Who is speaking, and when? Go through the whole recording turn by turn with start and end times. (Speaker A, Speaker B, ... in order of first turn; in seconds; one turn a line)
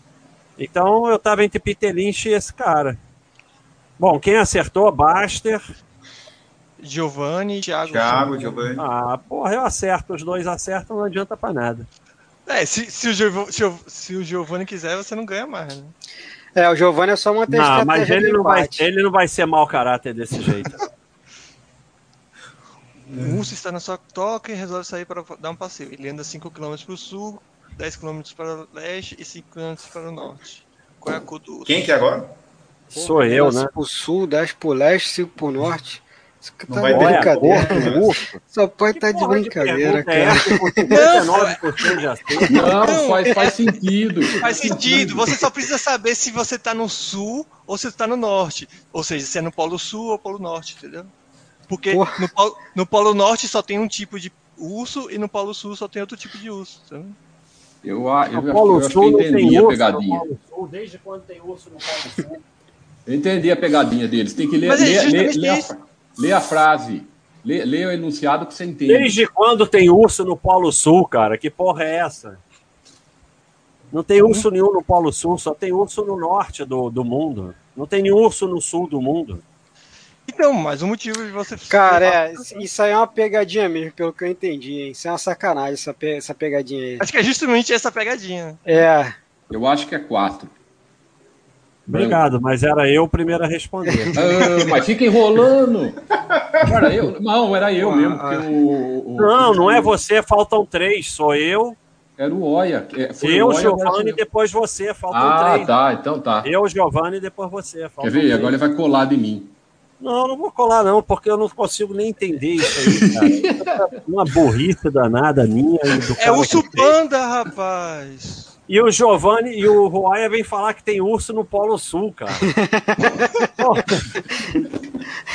Speaker A: 0.6-3.0
Speaker A: 4.0-5.6
Speaker B: 6.8-8.6
Speaker C: 7.8-8.8
Speaker A: 8.8-11.9
Speaker B: 12.5-15.9
Speaker D: 16.6-18.8
Speaker A: 17.5-20.8
Speaker C: 23.1-23.4
Speaker B: 23.1-31.9
Speaker C: 31.6-32.3
Speaker A: 32.9-33.7
Speaker D: 32.9-40.9
Speaker C: 36.7-38.1
Speaker A: 36.9-38.4
Speaker A: 38.9-42.8
Speaker B: 40.9-42.0
Speaker E: 42.5-45.4
Speaker B: 42.6-43.7
Speaker B: 44.4-51.1
Speaker B: 51.7-57.1
Speaker D: 51.9-52.2
Speaker E: 57.8-60.2
Speaker A: 58.3-62.4
Speaker E: 63.0-69.2
Speaker B: 64.6-65.7
Speaker A: 68.9-72.4
Speaker A: 73.9-79.4
Speaker B: 80.3-82.6
Speaker D: 81.7-87.0
Speaker B: 87.0-88.6
Speaker D: 88.7-89.1
Speaker E: 89.5-90.5
Speaker A: 91.9-94.2
Speaker E: 91.9-92.2
Speaker D: 93.9-94.7
Speaker E: 94.1-96.0
Speaker E: 96.6-99.9
Speaker D: 97.8-98.5
Speaker A: 99.2-101.8
Speaker E: 102.2-104.2
Speaker A: 103.2-105.7
Speaker E: 105.1-106.5
Speaker A: 106.4-108.6
Speaker E: 108.0-109.5
Speaker A: 110.0-116.9
Speaker E: 112.6-113.8
Speaker B: 116.2-118.5
Speaker A: 118.7-122.5
Speaker D: 122.5-123.3
Speaker A: 123.6-124.2